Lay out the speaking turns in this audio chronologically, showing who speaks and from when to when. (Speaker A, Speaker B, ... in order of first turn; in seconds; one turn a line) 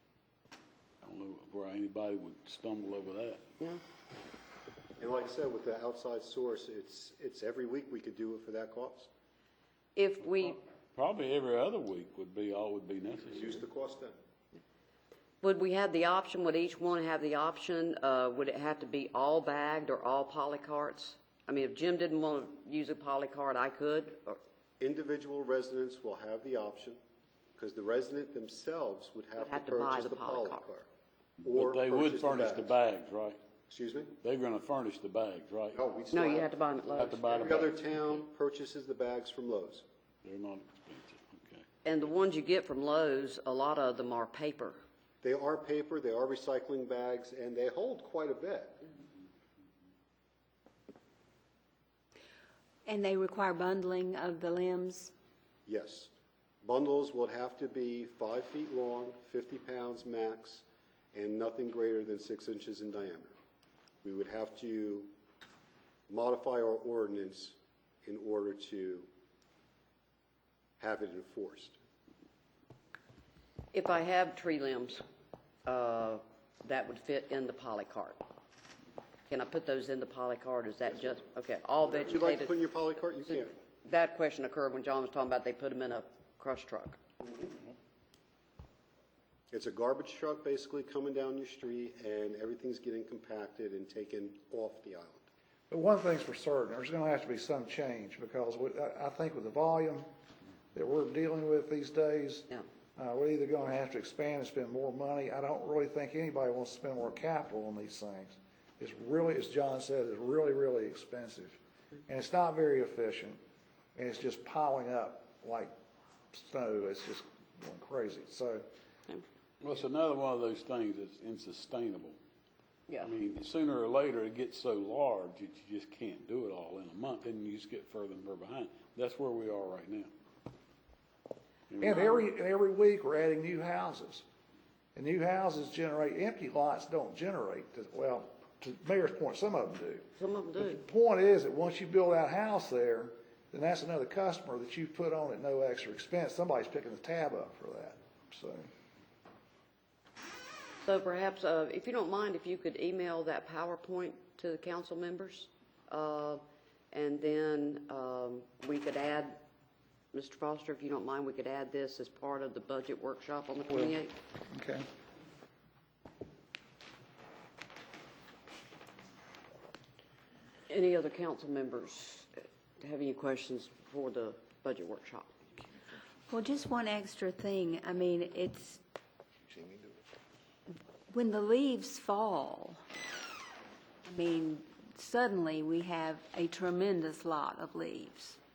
Speaker A: 1.0-3.4
Speaker B: 5.0-9.1
Speaker C: 9.9-10.6
Speaker A: 10.4-13.6
Speaker B: 13.2-14.1
Speaker C: 15.4-24.4
Speaker B: 24.8-27.0
Speaker B: 27.6-30.9
Speaker C: 29.4-30.7
Speaker B: 31.4-32.8
Speaker A: 31.5-33.4
Speaker B: 33.7-34.1
Speaker A: 34.2-35.8
Speaker B: 35.7-39.8
Speaker C: 36.1-37.4
Speaker A: 37.0-37.9
Speaker A: 40.2-41.6
Speaker C: 41.9-44.8
Speaker B: 45.2-48.8
Speaker D: 52.9-55.1
Speaker B: 55.7-56.1
Speaker B: 56.6-63.4
Speaker B: 64.0-65.1
Speaker B: 66.1-69.1
Speaker B: 70.8-71.8
Speaker C: 73.7-75.0
Speaker C: 75.7-78.2
Speaker C: 79.3-82.6
Speaker B: 81.8-83.5
Speaker C: 83.7-87.0
Speaker B: 89.5-95.3
Speaker E: 95.7-100.1
Speaker E: 100.7-113.4
Speaker E: 114.0-115.7
Speaker E: 116.3-118.7
Speaker A: 119.6-122.2
Speaker A: 123.0-130.1
Speaker A: 131.7-132.3
Speaker E: 131.8-134.2
Speaker E: 134.9-148.7
Speaker C: 140.2-140.8
Speaker C: 150.8-159.4
Speaker C: 160.1-164.1
Speaker E: 163.7-164.0
Speaker E: 164.5-164.8
Speaker C: 170.7-175.3
Speaker D: 176.3-178.8
Speaker D: 181.1-182.8
Speaker D: 184.1-188.4